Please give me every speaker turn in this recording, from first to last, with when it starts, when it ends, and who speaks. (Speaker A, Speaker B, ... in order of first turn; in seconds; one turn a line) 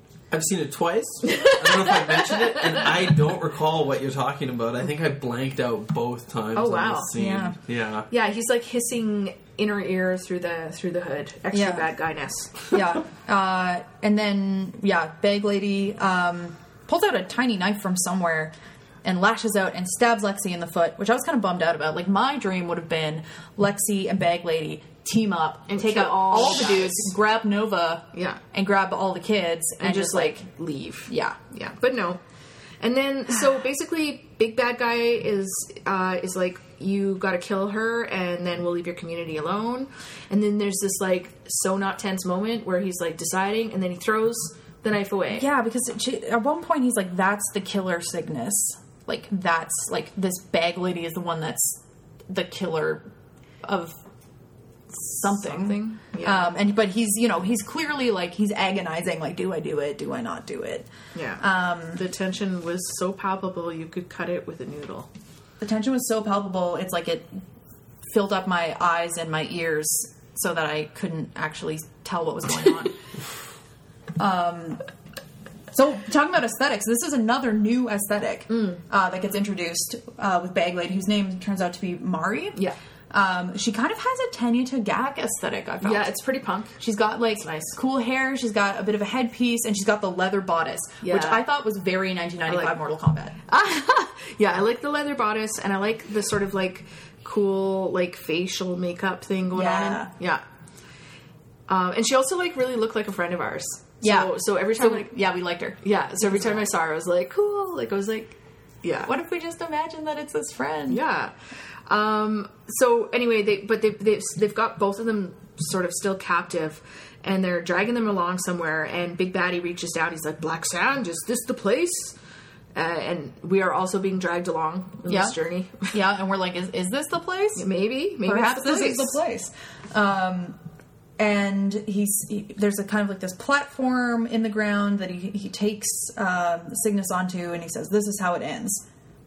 Speaker A: 0.3-8.1
Speaker B: 1.2-2.9
Speaker B: 6.5-7.1
Speaker C: 7.1-7.5
Speaker B: 8.1-12.7
Speaker C: 11.5-11.9
Speaker C: 12.7-18.5
Speaker C: 19.0-30.4
Speaker B: 25.7-27.1
Speaker B: 28.1-28.4
Speaker B: 29.8-32.2
Speaker C: 31.1-31.4
Speaker B: 32.8-45.5
Speaker C: 45.3-53.1
Speaker C: 53.6-54.0
Speaker C: 54.9-62.0
Speaker B: 55.2-56.5
Speaker B: 61.1-65.1
Speaker C: 65.6-67.4
Speaker C: 68.0-73.0
Speaker C: 74.2-74.8
Speaker C: 75.7-82.6
Speaker B: 78.5-78.8
Speaker C: 83.1-86.1
Speaker B: 85.8-86.8
Speaker C: 86.8-93.3
Speaker B: 87.4-87.8
Speaker B: 91.0-91.4
Speaker B: 92.5-92.7
Speaker B: 93.5-100.4
Speaker C: 99.5-100.1
Speaker B: 101.7-105.1
Speaker C: 104.0-106.6
Speaker B: 105.8-109.1
Speaker C: 109.0-111.0
Speaker B: 110.9-111.3
Speaker B: 111.9-122.2
Speaker B: 122.7-125.9
Speaker C: 125.1-125.3
Speaker C: 125.9-127.6
Speaker B: 127.5-129.2
Speaker C: 128.2-130.6
Speaker C: 131.2-138.8